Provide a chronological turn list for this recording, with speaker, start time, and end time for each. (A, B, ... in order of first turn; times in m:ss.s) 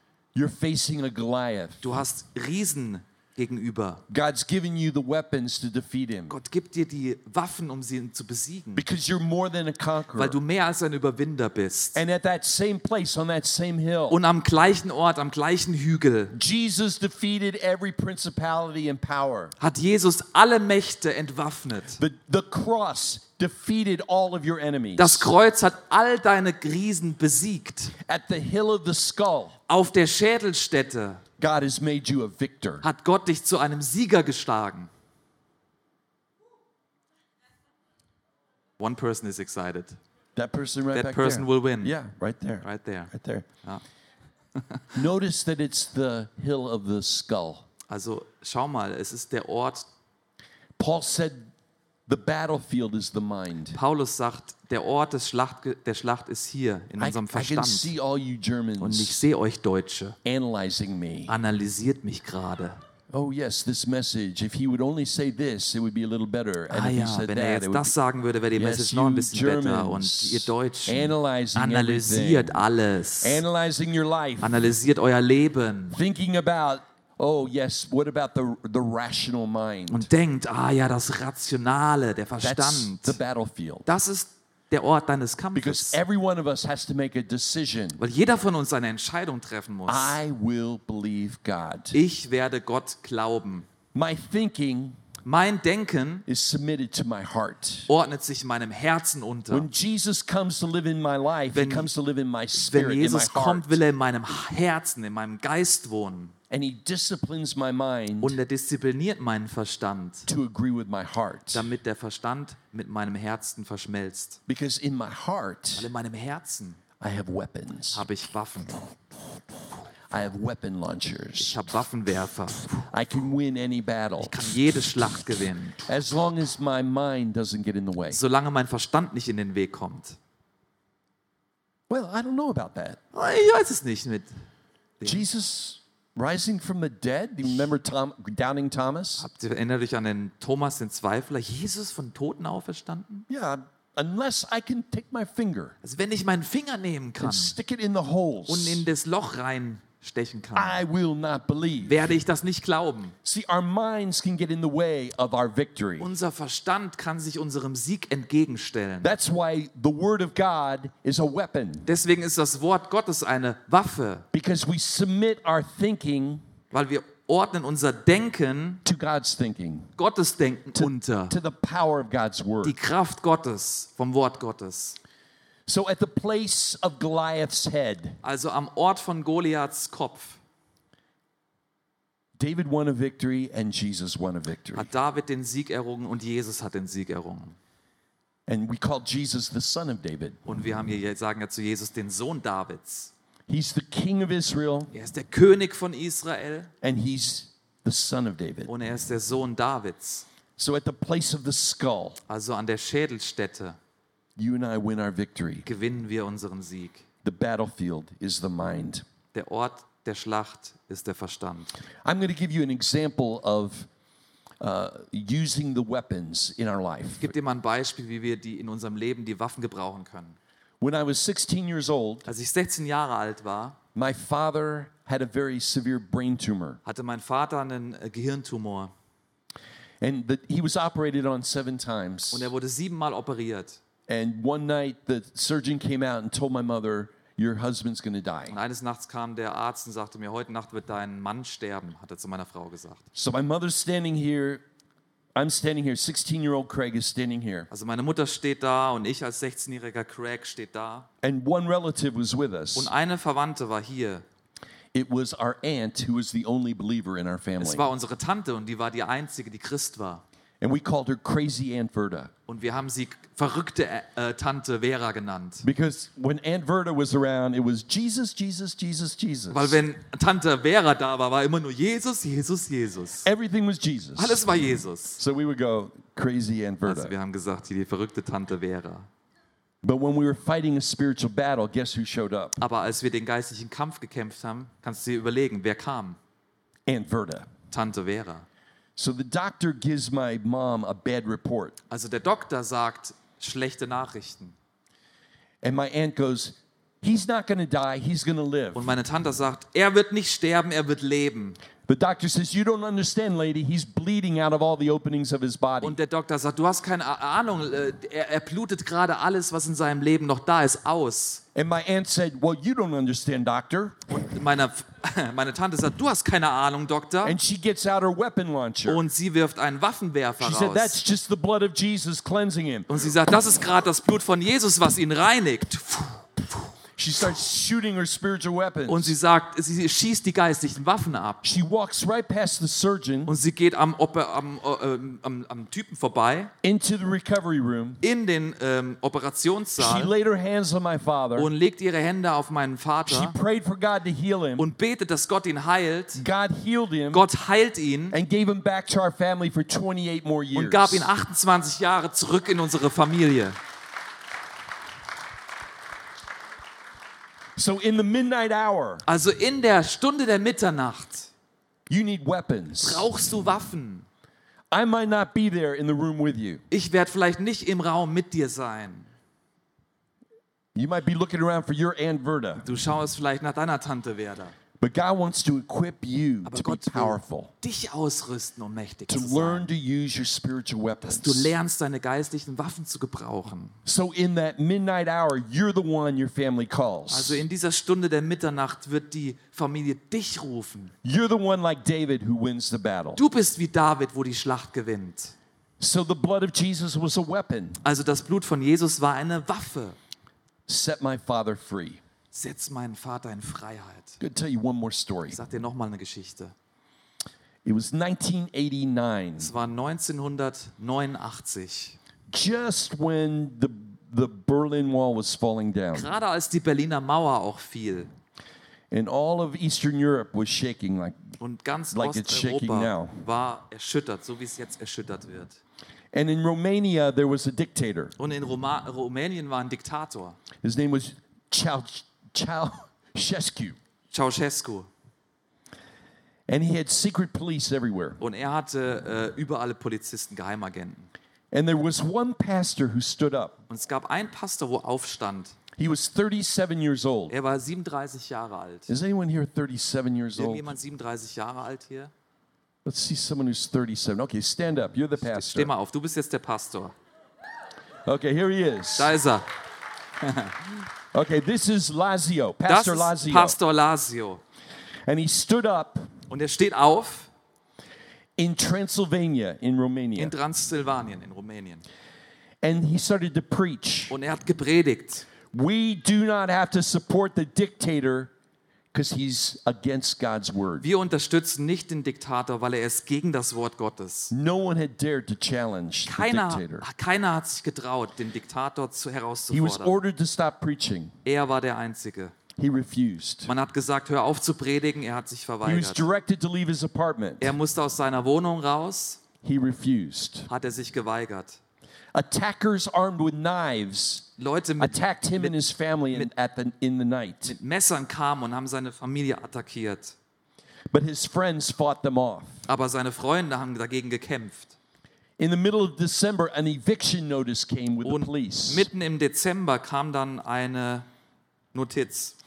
0:00.3-0:01.9 A
0:01.8-0:04.0 B
0:04.1-0:06.3 A
0:06.3-0:08.8 B
0:08.7-0:10.4 A
0:10.1-0:12.0 B
0:11.9-0:14.2 A
0:14.1-0:16.3 B
0:16.3-0:19.5 A
0:19.6-0:22.0 B
0:22.0-0:25.3 A
0:25.0-0:27.9 B
0:28.0-0:29.6 A
0:29.7-0:31.2 B
0:31.4-0:32.8 A
0:32.8-0:34.9 B
0:38.8-0:40.0 B
0:40.4-0:43.4 A
0:40.9-0:41.9 B
0:42.6-0:43.1 B
0:44.5-0:44.8 B
0:44.9-0:47.6 A
0:47.9-0:49.9 B
0:50.8-0:51.5 A
0:52.1-0:53.8 A
0:53.7-0:57.9 B
0:57.0-0:59.2 A
0:58.8-1:00.2 B
1:00.2-1:01.3 A
1:01.3-1:02.8 B
1:03.1-1:07.9 A
1:06.7-1:13.4 B
1:08.6-1:12.6 A
1:13.2-1:14.6 A
1:14.4-1:16.0 B
1:15.9-1:20.1 A
1:19.9-1:23.2 B
1:22.4-1:23.9 A
1:23.8-1:26.0 B
1:25.5-1:28.0 A
1:28.0-1:30.2 B
1:29.9-1:32.0 A
1:31.9-1:33.7 B
1:33.9-1:35.0 A
1:35.2-1:36.2 B
1:36.3-1:37.9 A
1:37.9-1:39.7 B
1:39.5-1:43.8 A
1:41.5-1:41.9 B
1:42.5-1:46.3 B
1:46.5-1:48.4 A
1:48.2-1:50.3 B
1:50.2-1:51.7 A
1:51.5-1:54.4 B
1:54.5-1:55.9 A
1:55.8-1:56.8 B
1:57.0-1:58.0 A
1:57.9-1:58.8 B
2:00.1-2:01.6 A
2:01.4-2:02.8 B
2:02.9-2:04.4 A
2:04.2-2:05.8 B
2:05.8-2:08.2 A
2:08.1-2:10.2 B
2:11.9-2:13.0 A
2:13.1-2:14.3 B
2:15.0-2:15.2 B
2:15.0-2:19.2 A
2:19.2-2:23.3 B
2:23.3-2:25.7 A
2:25.8-2:27.6 B
2:27.2-2:28.8 A
2:28.5-2:30.8 B
2:30.5-2:32.1 A
2:31.8-2:33.2 B
2:33.2-2:36.1 A
2:36.0-2:39.1 B
2:39.0-2:41.9 A
2:41.8-2:44.2 B
2:44.3-2:46.4 A
2:46.7-2:48.8 B
2:48.8-2:49.9 A
2:50.0-2:51.3 B
2:50.7-2:52.8 A
2:52.6-2:55.0 B
2:55.7-2:58.2 A
2:58.2-3:00.4 B
3:02.4-3:04.9 A
3:04.7-3:07.6 B
3:08.5-3:10.4 A
3:10.4-3:13.1 B
3:13.5-3:14.9 A
3:14.9-3:16.7 B
3:16.8-3:18.7 A
3:18.7-3:20.2 B
3:20.6-3:22.2 A
3:22.3-3:23.8 B
3:24.4-3:25.7 A
3:25.6-3:27.0 B
3:27.2-3:29.0 A
3:29.3-3:31.7 B
3:32.0-3:33.9 A
3:34.6-3:37.3 A
3:37.2-3:40.4 B
3:40.8-3:42.3 A
3:42.2-3:43.8 B
3:43.9-3:46.8 A
3:46.8-3:48.9 B
3:50.0-3:52.5 A
3:52.3-3:53.8 B
3:54.1-3:58.6 A
3:58.5-4:03.0 B
4:03.1-4:04.6 A
4:05.4-4:07.7 A
4:07.7-4:11.1 B
4:11.2-4:12.9 A
4:12.7-4:14.2 B
4:14.9-4:17.9 A
4:17.6-4:20.2 B
4:20.6-4:22.3 A
4:22.5-4:25.6 B
4:25.6-4:29.8 A
4:29.5-4:33.3 B
4:33.2-4:34.4 A
4:34.2-4:35.2 B
4:35.2-4:37.1 A
4:36.8-4:39.1 B
4:39.8-4:42.6 A
4:42.6-4:46.2 B
4:46.9-4:47.5 A
4:47.7-4:48.4 B
4:49.0-4:51.8 A
4:51.9-4:54.5 B
4:55.6-4:58.9 A
4:58.7-5:01.6 B
5:01.8-5:06.0 A
5:05.8-5:11.4 B
5:11.5-5:14.0 A
5:14.1-5:17.4 B
5:17.2-5:19.0 A
5:18.8-5:21.0 B
5:20.4-5:22.9 A
5:22.9-5:26.7 B
5:27.0-5:29.1 A
5:28.9-5:31.4 B
5:31.4-5:33.3 A
5:33.2-5:36.5 B
5:36.6-5:38.0 A
5:38.0-5:40.1 B
5:39.8-5:41.5 A
5:41.3-5:43.4 B
5:43.1-5:44.6 A
5:44.6-5:46.2 B
5:46.1-5:47.2 A
5:47.1-5:48.2 B
5:48.1-5:51.1 A
5:50.5-5:53.6 B
5:57.6-5:59.0 A
5:59.0-6:01.3 B
6:01.9-6:03.1 A
6:02.8-6:04.1 B
6:04.7-6:06.6 A
6:06.7-6:09.1 B
6:10.7-6:12.7 A
6:12.6-6:14.5 B
6:14.8-6:17.5 A
6:16.4-6:19.7 B
6:19.1-6:21.5 A
6:21.0-6:23.8 B
6:23.8-6:27.4 A
6:27.1-6:30.9 B
6:31.0-6:33.2 A
6:33.2-6:35.3 B
6:35.8-6:37.8 A
6:37.8-6:40.0 B
6:40.7-6:42.0 A
6:42.3-6:44.2 B
6:44.2-6:45.4 A
6:45.3-6:46.5 B
6:47.6-6:49.5 A
6:49.4-6:52.0 B
6:52.3-6:56.1 A
6:55.9-6:58.1 B
6:58.9-7:01.2 A
7:01.4-7:05.6 B
7:01.9-7:03.2 A
7:06.1-7:08.1 A
7:08.2-7:10.4 B
7:10.6-7:13.8 A
7:14.1-7:14.9 B
7:16.5-7:18.2 A
7:18.2-7:21.1 B
7:21.5-7:23.6 A
7:23.7-7:25.6 B
7:25.8-7:27.3 A
7:27.3-7:28.9 B
7:28.9-7:30.7 A
7:30.3-7:32.1 B
7:32.8-7:35.7 A
7:35.2-7:37.0 B
7:38.0-7:39.1 A
7:39.0-7:39.5 B
7:40.2-7:40.7 B
7:41.1-7:43.6 A
7:42.7-7:44.4 B
7:45.0-7:46.1 A
7:46.3-7:47.3 B
7:48.4-7:50.3 A
7:50.2-7:51.8 B
7:52.6-7:54.2 A
7:54.1-7:55.2 B
7:55.5-7:58.3 A
7:58.9-8:00.9 A
8:00.8-8:04.3 B
8:04.3-8:06.8 A
8:06.0-8:10.0 B
8:09.5-8:11.1 A
8:11.2-8:12.3 B
8:12.6-8:13.5 A
8:13.4-8:16.1 B
8:15.6-8:17.5 A
8:17.4-8:19.2 B
8:19.4-8:20.5 A
8:20.5-8:21.6 B
8:22.1-8:24.3 A
8:24.4-8:26.3 B
8:24.8-8:27.5 A
8:27.4-8:30.1 B
8:30.9-8:32.6 A
8:32.7-8:34.8 B
8:35.4-8:38.9 A
8:38.0-8:41.1 B
8:41.7-8:42.3 B